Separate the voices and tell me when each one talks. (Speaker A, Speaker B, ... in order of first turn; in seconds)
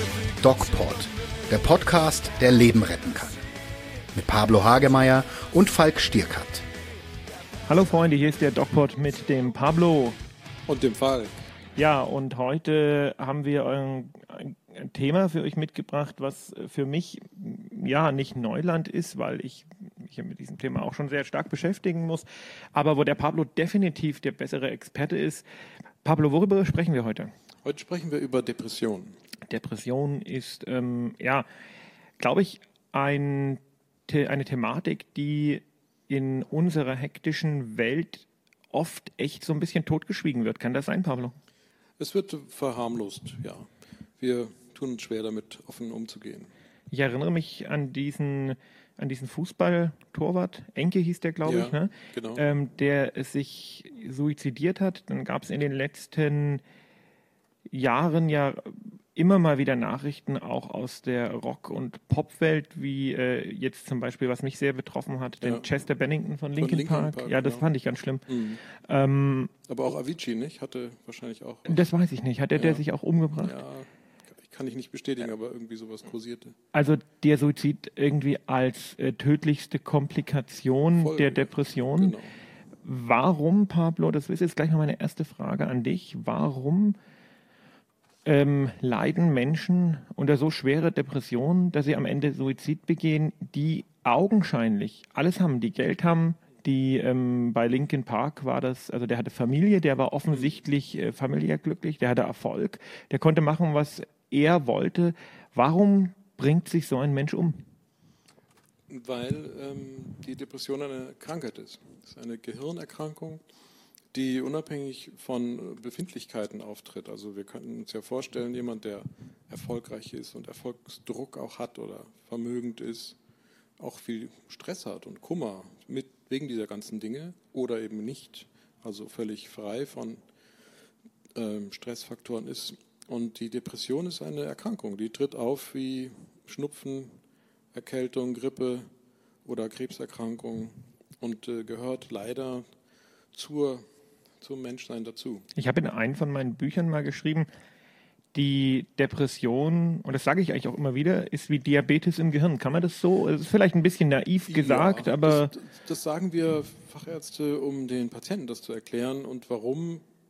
Speaker A: 0.4-3.4, 4.1-6.7
Speaker B: 7.7-10.2, 11.8-25.4, 26.0-27.3, 29.5-31.5, 32.2-41.4, 46.9-56.6, 57.7-69.5, 71.7-73.6, 76.7-82.2, 82.8-87.0, 88.2-107.6, 145.6-147.5, 148.3-155.5
Speaker C: 10.7-11.5, 27.6-29.2, 42.0-43.7, 44.2-46.5, 51.4-52.4, 66.6-67.7, 68.3-68.6, 69.7-71.9, 72.5-72.8, 73.4-76.5, 80.9-82.3, 108.9-113.4, 114.1-123.2, 123.8-130.2, 131.3-137.2, 137.7-138.9, 139.4-142.7, 143.3-143.8, 144.4-145.5, 154.5-160.0